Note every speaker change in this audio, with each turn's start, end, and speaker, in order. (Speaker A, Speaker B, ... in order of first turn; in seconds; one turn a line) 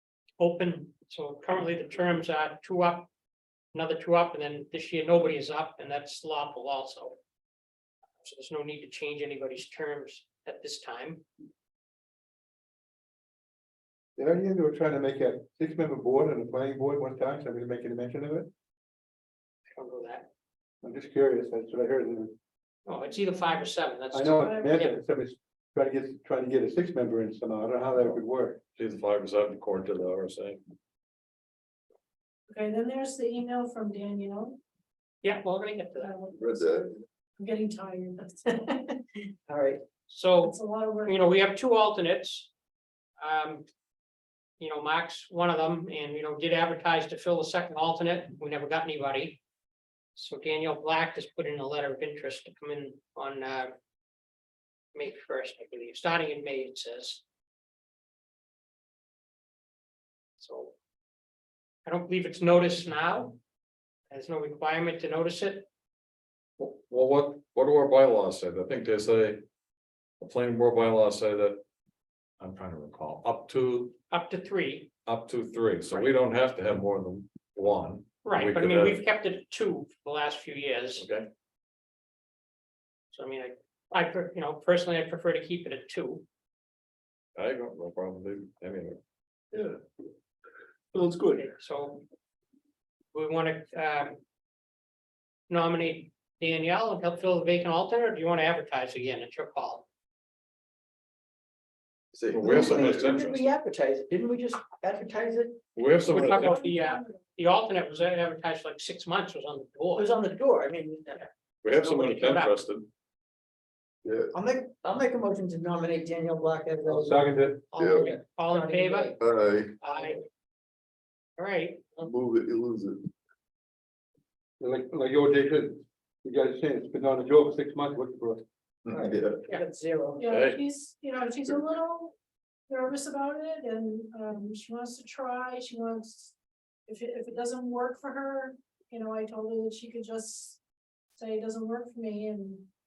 Speaker A: 0.4-3.1
Speaker A: 3.7-7.2
Speaker A: 8.2-11.2
Speaker B: 14.2-18.5
Speaker A: 19.8-20.3
Speaker B: 20.8-22.3
Speaker A: 22.9-24.9
Speaker B: 24.1-28.6
Speaker C: 24.4-24.8
Speaker D: 28.8-30.6
Speaker C: 32.5-34.6
Speaker A: 35.2-36.1
Speaker C: 36.0-39.0
Speaker E: 36.4-36.9
Speaker F: 39.5-39.8
Speaker A: 40.1-42.5
Speaker C: 40.4-41.2
Speaker A: 43.2-43.7
Speaker A: 44.6-49.4
Speaker A: 50.1-53.7
Speaker A: 54.9-57.2
Speaker A: 60.4-60.7
Speaker A: 61.9-63.4
Speaker A: 64.1-65.7
Speaker D: 66.6-69.4
Speaker D: 70.2-71.6
Speaker D: 72.4-74.0
Speaker A: 74.1-74.9
Speaker D: 75.1-79.0
Speaker A: 78.2-81.0
Speaker D: 81.0-81.3
Speaker A: 83.1-86.2
Speaker D: 87.4-89.0
Speaker E: 89.5-89.8
Speaker E: 90.9-91.5
Speaker A: 91.3-92.0
Speaker A: 93.1-94.2
Speaker A: 95.5-99.9
Speaker D: 102.3-103.5
Speaker E: 102.3-102.8
Speaker F: 102.3-105.6
Speaker D: 105.8-106.7
Speaker A: 106.1-110.1
Speaker F: 110.0-111.2
Speaker A: 111.2-112.5
Speaker D: 111.6-112.9
Speaker E: 114.0-114.3
Speaker F: 114.3-117.3
Speaker B: 116.8-117.6
Speaker A: 117.7-119.2
Speaker E: 117.8-118.1
Speaker F: 118.0-119.2
Speaker E: 119.2-119.8
Speaker A: 119.8-120.2
Speaker A: 121.4-122.0
Speaker E: 122.0-123.1
Speaker B: 124.6-128.4
Speaker E: 128.8-129.4
Speaker F: 128.9-130.4
Speaker C: 130.2-132.2
Speaker D: 130.3-130.6
Speaker C: 132.7-136.3
Speaker C: 136.9-140.6
Speaker C: 141.2-142.7